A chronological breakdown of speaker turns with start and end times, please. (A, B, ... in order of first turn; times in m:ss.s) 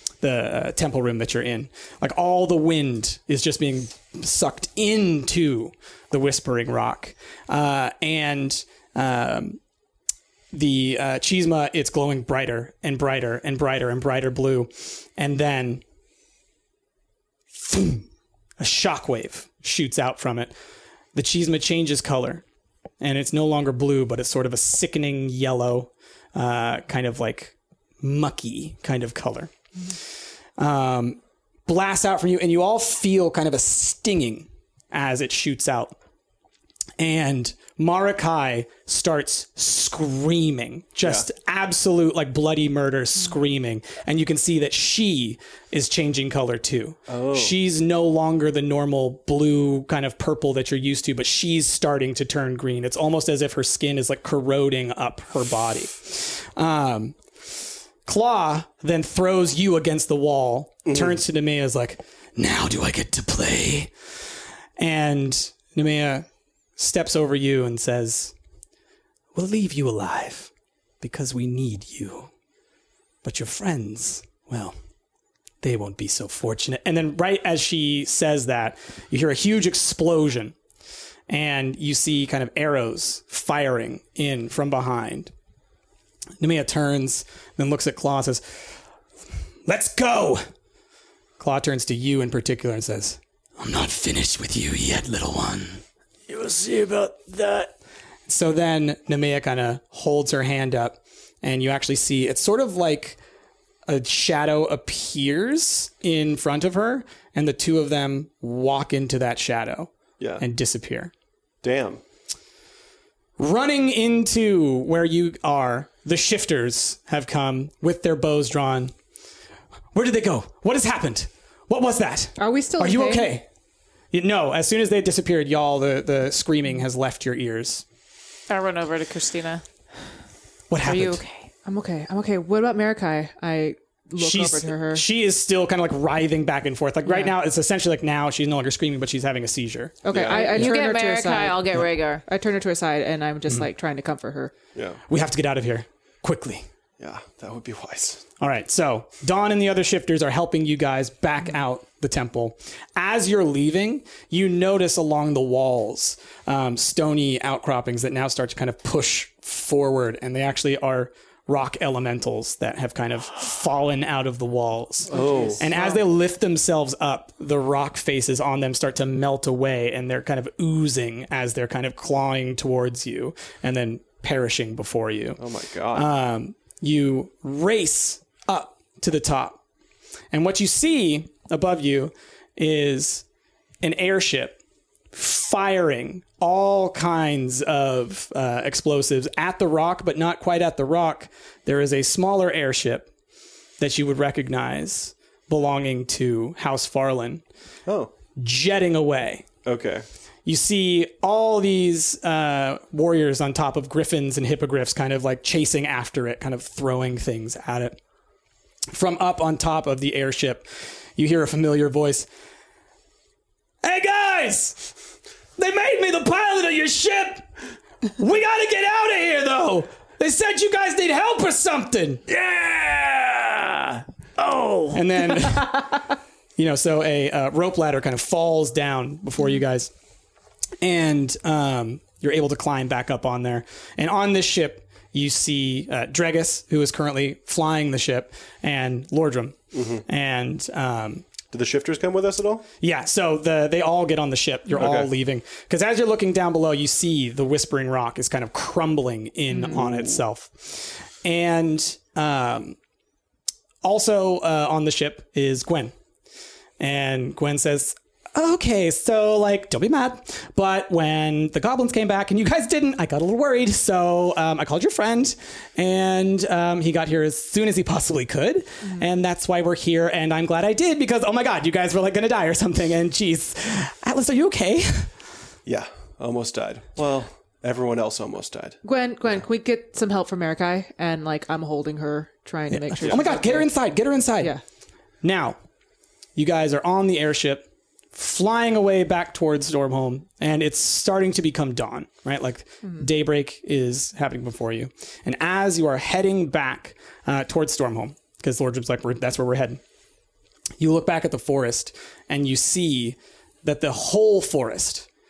0:00.2-0:09.6 A
0:10.5-0:15.8 A
0:17.6-0:18.1 A
0:18.6-0:20.5 A
0:21.1-0:22.4 A
0:23.0-0:29.5 A
0:30.6-0:36.0 A
0:37.0-0:57.2 A
0:41.0-0:41.3 B
0:47.1-0:47.6 B
0:58.0-1:03.9 A
1:00.9-1:01.2 B
1:04.8-1:06.3 A
1:06.8-1:08.3 A
1:09.4-1:12.3 A
1:13.2-1:14.8 A
1:15.6-1:20.6 A
1:21.3-1:25.3 A
1:26.4-1:28.6 A
1:29.7-1:30.4 A
1:31.4-1:35.8 A
1:36.3-1:37.7 C
1:38.3-1:43.2 A
1:43.9-1:51.1 A
1:51.6-1:52.0 B
1:53.4-1:58.9 A
1:59.9-2:03.5 A
2:02.4-2:03.3 D
2:04.1-2:07.8 A
2:08.5-2:09.6 E
2:10.7-2:11.2 A
2:10.8-2:11.5 E
2:11.6-2:15.0 D
2:14.2-2:20.0 A
2:17.1-2:17.3 D
2:20.0-2:24.5 D
2:20.1-2:20.6 B
2:20.3-2:22.2 E
2:25.1-2:26.6 A
2:27.0-2:28.2 B
2:28.4-2:55.4 A
2:45.1-2:45.6 B
2:45.1-2:46.0 D
2:55.4-2:56.1 B
2:55.9-2:59.6 A
3:00.3-3:03.2 A
3:03.8-3:04.6 A
3:05.1-3:13.1 A
3:13.8-3:17.4 A
3:17.9-3:18.1 B
3:18.4-3:19.5 A
3:19.6-3:20.1 B
3:20.4-3:28.0 A
3:28.9-3:32.3 A
3:33.8-3:34.9 A
3:35.6-3:37.5 A
3:38.2-3:42.2 A
3:42.3-3:45.5 C
3:44.9-3:49.9 A
3:50.8-4:01.2 A
3:59.7-4:00.0 B
4:01.5-4:02.7 B
4:02.8-4:12.8 A
4:04.7-4:05.1 B
4:09.7-4:10.1 B
4:13.8-4:15.9 A
4:16.8-4:35.1 A
4:35.6-4:38.8 B
4:38.8-4:43.7 D
4:42.7-4:44.6 A
4:45.2-4:45.6 A
4:46.4-4:59.8 A
5:00.8-5:05.1 A